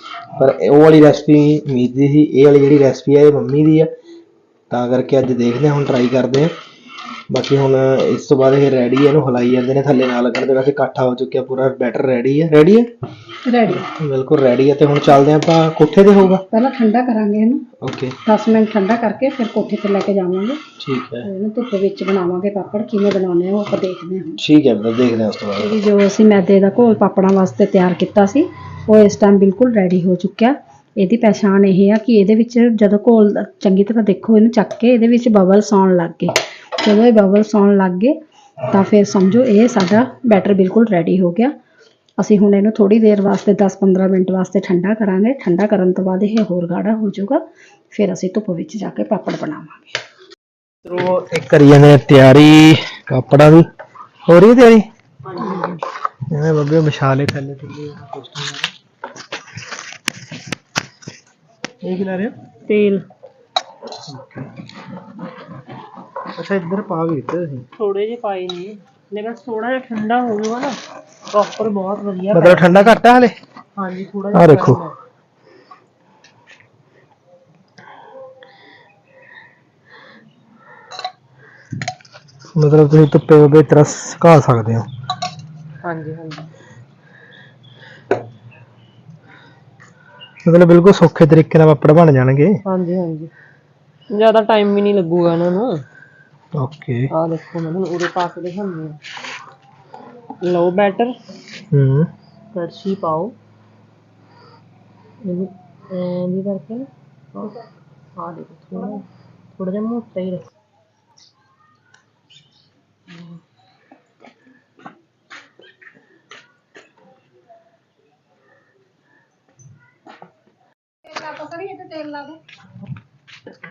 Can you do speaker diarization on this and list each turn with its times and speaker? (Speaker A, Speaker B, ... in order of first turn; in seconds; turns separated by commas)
Speaker A: 0.4-3.9, Speaker A: 4.7-6.5, Speaker A: 7.3-12.9, Speaker B: 13.4-13.9, Speaker A: 13.8-16.4, Speaker B: 16.5-17.6, Speaker A: 17.8-18.1, Speaker B: 18.2-20.6, Speaker A: 20.8-21.3, Speaker B: 21.2-24.4, Speaker A: 24.4-25.8, Speaker B: 25.6-38.2, Speaker B: 38.7-41.5, Speaker B: 42.2-49.9, Speaker A: 50.8-53.7, Speaker A: 54.3-55.7, Speaker A: 56.3-58.7, Speaker A: 61.8-62.3, Speaker C: 62.7-63.0, Speaker A: 64.1-64.5, Speaker A: 66.3-67.7, Speaker C: 67.8-70.7, Speaker C: 71.3-72.5, Speaker A: 72.3-73.3, Speaker C: 73.8-74.8, Speaker A: 74.3-74.8, Speaker A: 82.5-84.9, Speaker C: 85.8-86.5, Speaker A: 90.5-92.6, Speaker C: 92.6-93.3, Speaker C: 94.1-95.8, Speaker A: 96.5-97.1, Speaker C: 97.1-99.0, Speaker C: 100.4-101.2, Speaker A: 101.7-102.1, Speaker C: 102.5-103.3, Speaker C: 105.2-107.6, Speaker C: 108.2-109.0, Speaker C: 109.6-110.5, Speaker B: 121.1-122.4